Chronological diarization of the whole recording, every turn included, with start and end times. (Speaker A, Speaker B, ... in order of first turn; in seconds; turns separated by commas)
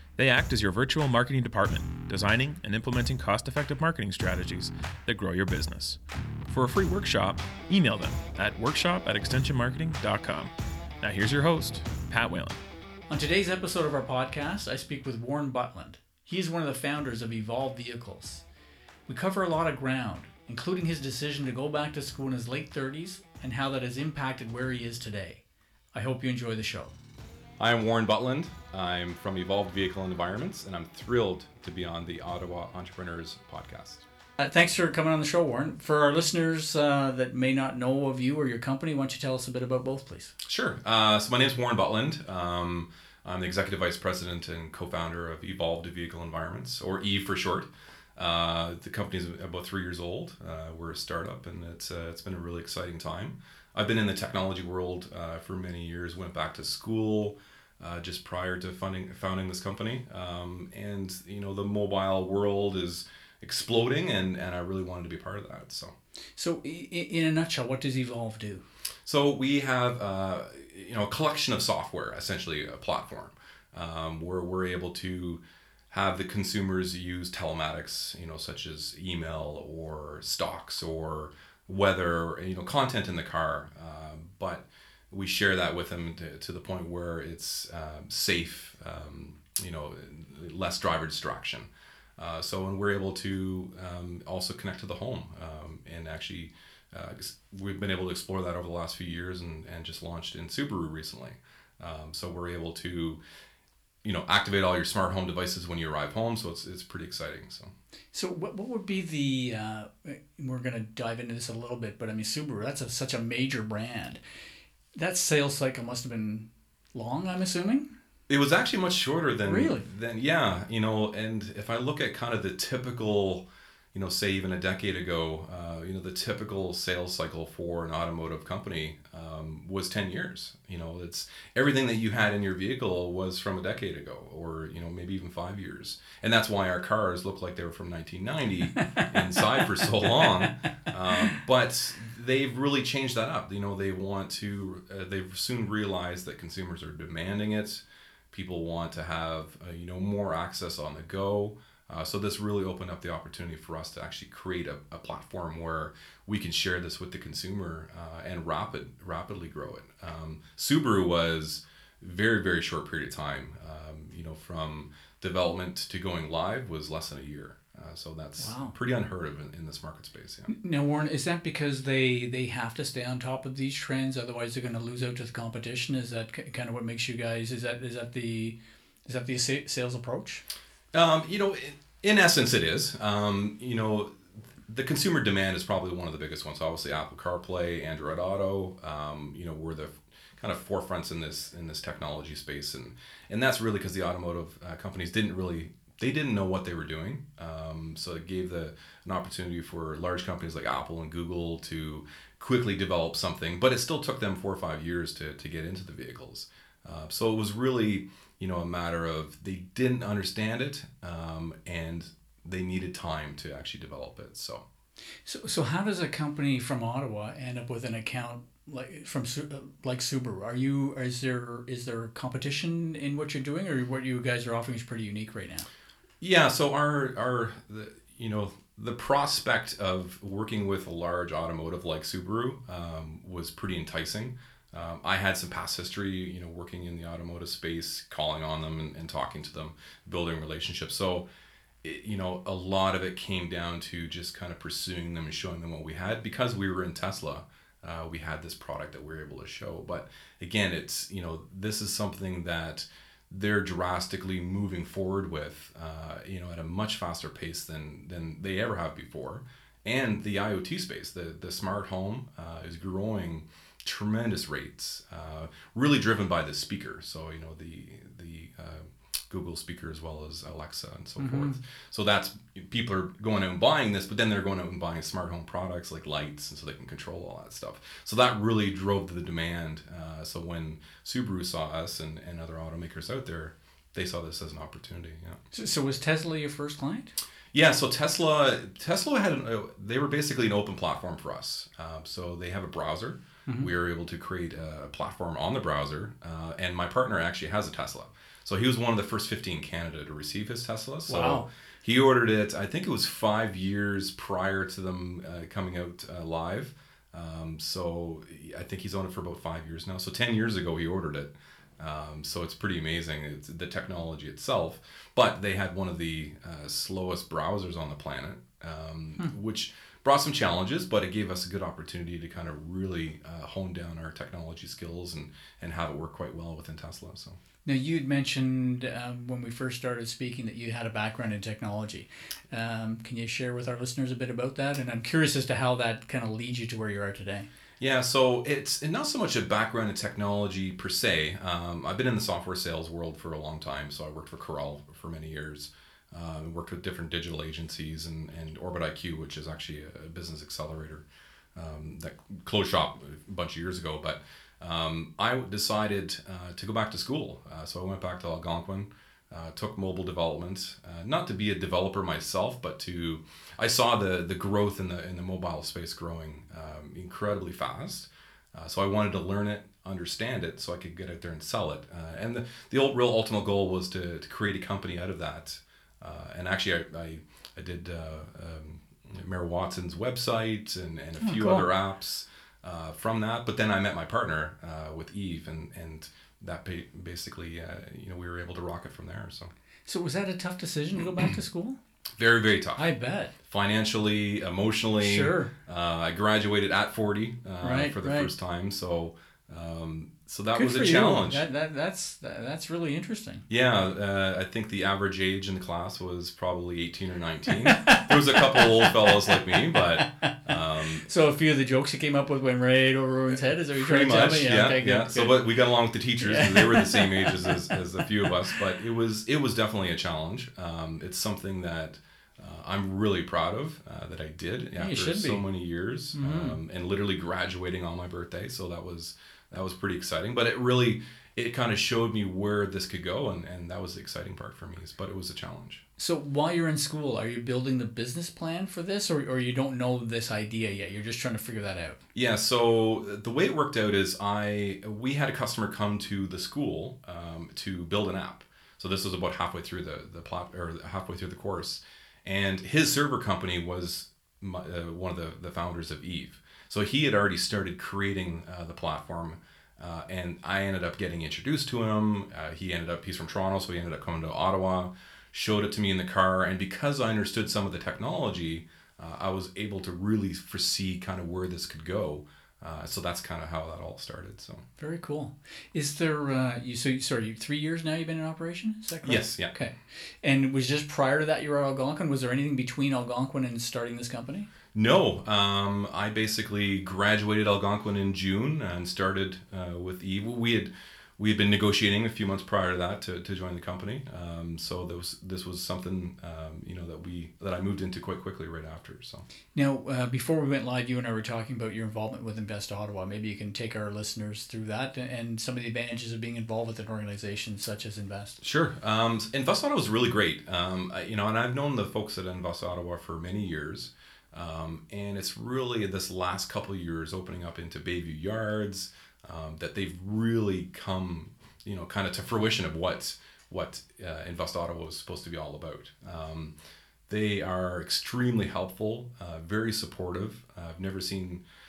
Speaker A: 0.2-12.6, Speaker B: 13.1-18.4, Speaker B: 19.1-25.4, Speaker B: 25.9-26.9, Speaker C: 27.6-34.0, Speaker B: 34.4-40.3, Speaker C: 40.4-65.9, Speaker B: 66.4-68.6, Speaker C: 69.0-103.2, Speaker C: 104.0-107.7, Speaker B: 108.1-114.2, Speaker B: 115.0-117.9, Speaker C: 118.3-170.5, Speaker B: 119.5-119.8, Speaker B: 138.8-139.4, Speaker B: 168.4-168.7, Speaker B: 170.5-180.4, Speaker C: 180.9-214.7, Speaker B: 215.2-225.7, Speaker C: 226.2-241.3, Speaker C: 241.8-285.4, Speaker B: 271.2-271.6, Speaker B: 285.5-287.1, Speaker C: 287.5-327.4, Speaker B: 301.1-301.5, Speaker B: 327.6-337.5, Speaker C: 337.8-389.5, Speaker B: 381.2-381.6, Speaker B: 389.9-391.8, Speaker C: 392.2-392.9, Speaker B: 392.8-393.3, Speaker C: 393.4-401.4, Speaker B: 395.0-395.5, Speaker B: 397.6-398.3, Speaker B: 400.5-403.4, Speaker C: 403.5-411.1, Speaker B: 407.6-410.4, Speaker B: 411.0-415.5, Speaker C: 413.7-435.8, Speaker B: 416.2-418.3, Speaker B: 424.8-425.4, Speaker B: 426.1-426.6, Speaker B: 436.0-442.0, Speaker C: 442.1-474.6, Speaker B: 474.8-484.5, Speaker C: 479.0-479.5, Speaker C: 484.7-499.2, Speaker B: 499.5-508.4, Speaker C: 508.4-526.5, Speaker C: 527.1-531.4